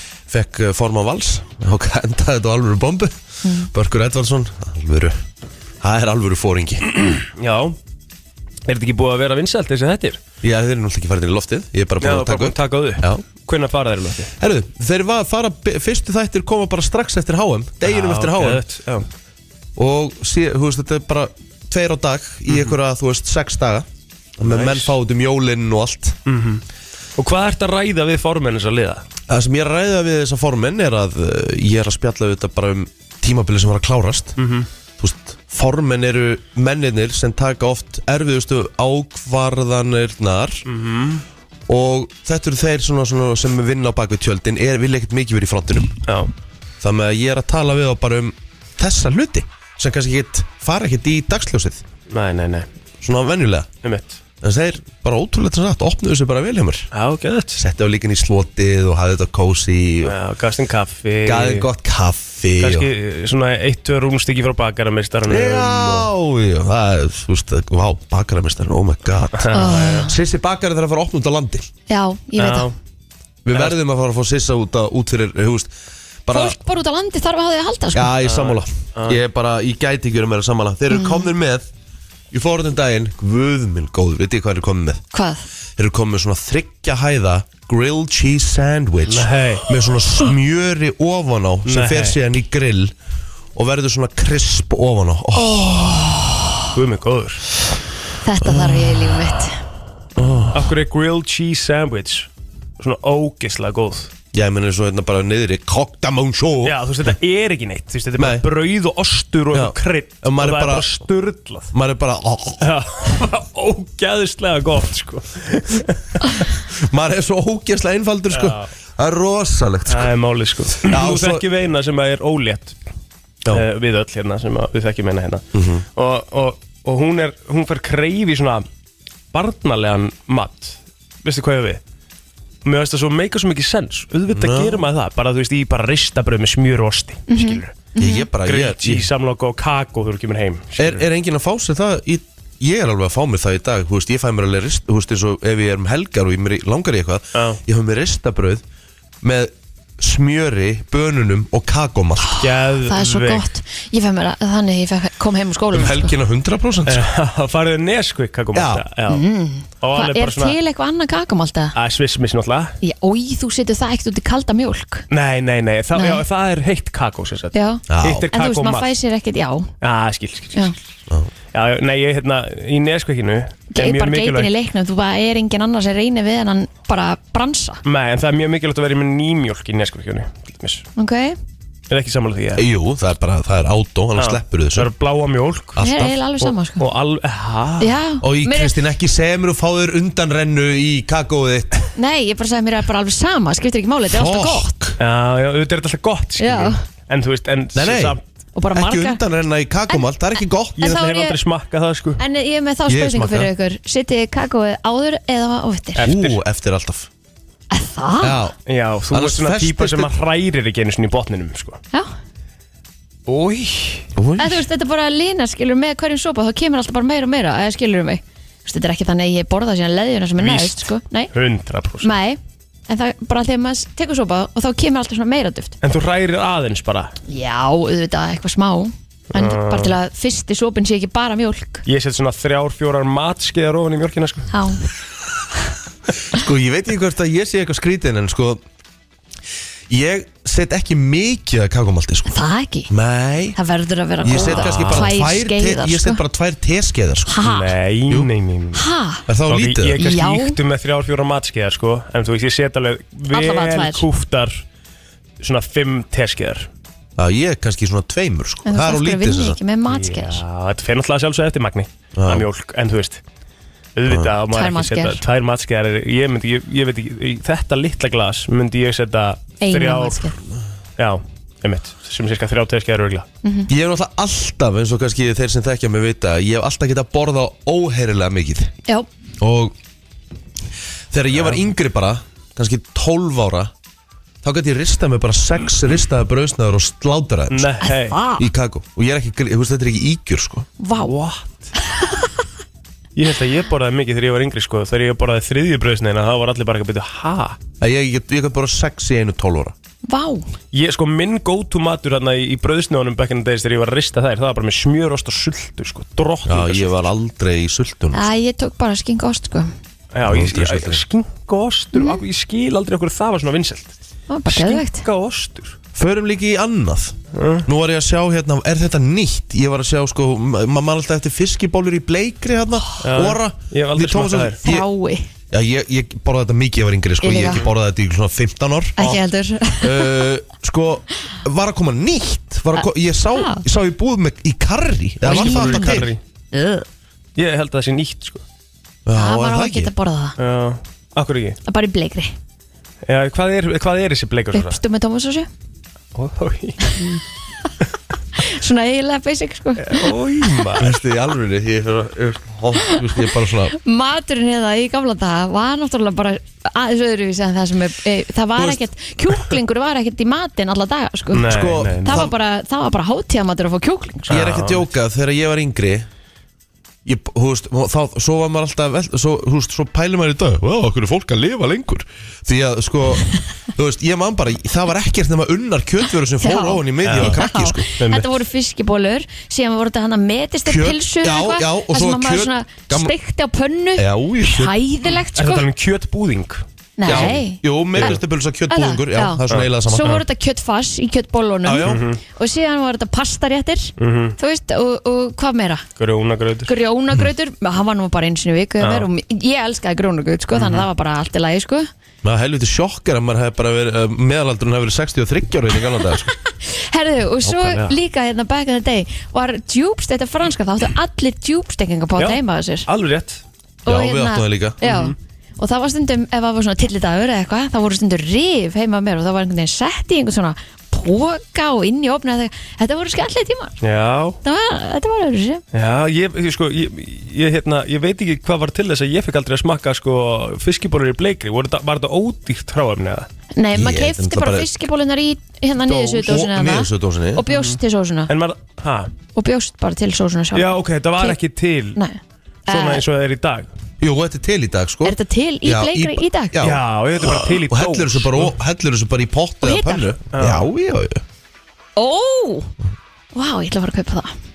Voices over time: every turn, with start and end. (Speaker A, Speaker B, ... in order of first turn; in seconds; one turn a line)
Speaker A: 0.3-5.2
Speaker B: 3.4-3.7
Speaker A: 5.8-6.9
Speaker C: 7.1-7.8
Speaker C: 8.7-10.2
Speaker A: 10.4-13.2
Speaker C: 12.0-14.3
Speaker A: 14.4-18.6
Speaker C: 17.8-19.1
Speaker A: 19.8-23.9
Speaker C: 22.5-22.8
Speaker A: 24.4-26.2
Speaker C: 24.4-24.9
Speaker C: 26.3-26.6
Speaker C: 27.2-29.0
Speaker A: 29.3-34.4
Speaker C: 34.4-34.7
Speaker A: 35.0-40.6
Speaker C: 40.7-41.2
Speaker A: 41.7-46.0
Speaker C: 46.1-46.3
Speaker A: 46.8-51.8
Speaker C: 52.1-52.7
Speaker A: 53.0-53.7
Speaker C: 53.8-54.2
Speaker A: 54.4-56.9
Speaker C: 56.9-57.6
Speaker A: 57.6-60.1
Speaker C: 60.0-61.7
Speaker A: 61.2-62.9
Speaker C: 62.6-66.1
Speaker A: 65.3-71.7
Speaker C: 69.4-70.1
Speaker B: 69.5-70.1
Speaker B: 71.9-72.7
Speaker C: 72.4-72.8
Speaker A: 73.5-75.7
Speaker A: 76.3-76.6
Speaker B: 76.3-78.1
Speaker A: 77.9-81.7
Speaker C: 78.2-79.2
Speaker B: 80.9-81.3
Speaker A: 82.3-85.0
Speaker B: 85.1-85.5
Speaker A: 85.8-92.9
Speaker C: 89.1-89.7
Speaker C: 91.7-92.2
Speaker A: 93.5-96.0
Speaker B: 95.5-96.3
Speaker C: 96.7-97.4
Speaker B: 98.2-99.6
Speaker A: 98.4-99.3
Speaker A: 100.2-100.7
Speaker C: 100.5-104.1
Speaker A: 104.3-106.8
Speaker C: 106.7-111.7
Speaker A: 108.2-108.4
Speaker A: 109.5-110.9
Speaker A: 111.7-112.7
Speaker C: 112.6-116.5
Speaker A: 116.8-120.1
Speaker C: 118.3-118.7
Speaker C: 119.9-122.8
Speaker A: 120.8-121.5
Speaker C: 123.5-125.5
Speaker A: 125.5-125.8
Speaker C: 126.0-128.7
Speaker C: 129.3-131.8
Speaker C: 132.7-137.9
Speaker A: 134.3-134.8
Speaker B: 137.3-138.3
Speaker A: 138.0-139.1
Speaker C: 138.4-141.1
Speaker A: 140.8-148.6
Speaker C: 147.3-147.6
Speaker A: 149.2-152.3
Speaker B: 152.2-156.1
Speaker C: 152.4-153.4
Speaker A: 155.7-157.1
Speaker C: 156.9-159.2
Speaker A: 158.5-158.8
Speaker B: 159.1-161.8
Speaker C: 159.8-160.6
Speaker C: 161.8-162.8
Speaker B: 162.8-165.1
Speaker C: 165.1-168.9
Speaker B: 165.9-166.2
Speaker B: 167.5-169.7
Speaker A: 167.9-168.3
Speaker C: 169.8-170.7
Speaker C: 171.5-174.5
Speaker B: 173.7-177.8
Speaker C: 177.8-180.8
Speaker B: 181.0-181.4
Speaker C: 181.9-182.7
Speaker A: 182.6-184.9
Speaker C: 184.2-185.8
Speaker A: 185.8-186.2
Speaker B: 185.8-186.8
Speaker C: 186.4-187.9
Speaker B: 187.8-188.7
Speaker A: 188.2-191.8
Speaker B: 192.0-194.7
Speaker A: 194.1-195.0
Speaker C: 195.0-198.2
Speaker B: 196.4-196.8
Speaker A: 197.8-198.2
Speaker B: 198.6-199.2
Speaker A: 198.7-201.0
Speaker B: 200.8-201.4
Speaker C: 200.8-202.2
Speaker B: 202.2-206.1
Speaker A: 202.9-203.5
Speaker C: 206.0-206.4
Speaker A: 206.1-207.1
Speaker B: 207.7-208.4
Speaker A: 208.2-208.6
Speaker C: 208.7-211.8
Speaker A: 209.1-210.2
Speaker C: 213.3-214.1
Speaker A: 214.2-214.6
Speaker B: 214.4-221.3
Speaker C: 220.4-222.1
Speaker B: 222.0-225.8
Speaker C: 225.8-227.1
Speaker B: 227.3-231.8
Speaker C: 229.3-230.0
Speaker C: 231.9-234.5
Speaker B: 234.5-234.9
Speaker A: 236.3-238.6
Speaker A: 239.9-242.3
Speaker B: 242.3-242.9
Speaker A: 242.9-243.6
Speaker B: 243.6-246.2
Speaker A: 244.2-247.4
Speaker C: 244.3-245.1
Speaker B: 247.3-247.7
Speaker C: 247.4-248.8
Speaker B: 248.8-249.2
Speaker A: 249.3-250.0
Speaker C: 249.5-254.6
Speaker B: 250.0-250.6
Speaker B: 253.3-254.0
Speaker C: 255.4-256.7
Speaker A: 257.2-259.6
Speaker B: 258.7-260.4
Speaker C: 259.9-263.2
Speaker A: 262.2-262.5
Speaker C: 264.0-270.3
Speaker B: 264.5-265.2
Speaker B: 269.6-270.4
Speaker C: 271.0-273.3
Speaker A: 273.7-278.7
Speaker A: 279.4-279.8
Speaker A: 281.1-283.7
Speaker A: 284.4-287.8
Speaker C: 287.5-288.2
Speaker B: 287.8-288.4
Speaker A: 288.4-290.7
Speaker B: 290.8-291.2
Speaker C: 291.1-291.4
Speaker C: 293.1-297.6
Speaker A: 297.8-299.8
Speaker B: 300.1-300.5
Speaker C: 300.7-307.1
Speaker A: 306.4-308.3
Speaker B: 308.1-309.7
Speaker C: 310.1-313.9
Speaker A: 310.2-311.0
Speaker B: 311.9-312.2
Speaker B: 314.3-315.0
Speaker C: 314.5-315.8
Speaker A: 315.9-324.9
Speaker C: 317.3-317.7
Speaker C: 323.0-324.6
Speaker B: 324.6-325.3
Speaker A: 325.5-329.2
Speaker B: 327.2-327.6
Speaker B: 329.0-330.1
Speaker A: 329.8-336.1
Speaker B: 332.7-333.6
Speaker C: 335.2-336.2
Speaker B: 335.2-336.9
Speaker C: 337.4-338.4
Speaker A: 339.1-339.9
Speaker B: 339.1-340.4
Speaker C: 340.4-341.6
Speaker B: 341.7-342.3
Speaker C: 343.1-344.8
Speaker B: 344.5-345.5
Speaker C: 346.1-347.2
Speaker B: 348.4-350.1
Speaker C: 349.8-350.9
Speaker A: 350.8-353.8
Speaker B: 352.8-353.1
Speaker B: 353.7-364.4
Speaker C: 361.3-362.3
Speaker A: 361.4-362.3
Speaker C: 364.3-364.9
Speaker A: 364.3-366.1
Speaker A: 367.1-377.9
Speaker B: 376.4-385.7
Speaker C: 377.1-377.4
Speaker C: 378.0-378.3
Speaker A: 380.6-383.1
Speaker A: 384.0-384.8
Speaker C: 385.4-387.4
Speaker B: 387.0-395.9
Speaker A: 387.1-390.2
Speaker A: 391.6-392.1
Speaker C: 391.9-392.2
Speaker C: 394.0-394.4
Speaker C: 396.0-396.7
Speaker B: 396.7-401.9
Speaker C: 398.8-399.1
Speaker C: 400.5-400.9
Speaker A: 402.2-406.3
Speaker B: 406.5-412.9
Speaker C: 407.4-407.9
Speaker C: 412.2-413.4
Speaker B: 413.9-423.8
Speaker A: 413.9-414.8
Speaker C: 414.8-415.1
Speaker C: 423.8-424.4
Speaker B: 424.4-425.6
Speaker C: 425.7-433.3
Speaker B: 433.6-438.3
Speaker A: 433.7-434.7
Speaker A: 435.9-437.4
Speaker C: 437.5-437.8
Speaker C: 438.3-439.1
Speaker B: 439.4-441.4
Speaker C: 440.5-442.0
Speaker B: 442.0-443.0
Speaker C: 442.7-443.7
Speaker A: 444.0-451.2
Speaker B: 445.0-446.6
Speaker C: 446.6-448.5
Speaker B: 449.6-450.1
Speaker C: 450.3-450.7
Speaker B: 452.0-452.7
Speaker B: 453.3-454.3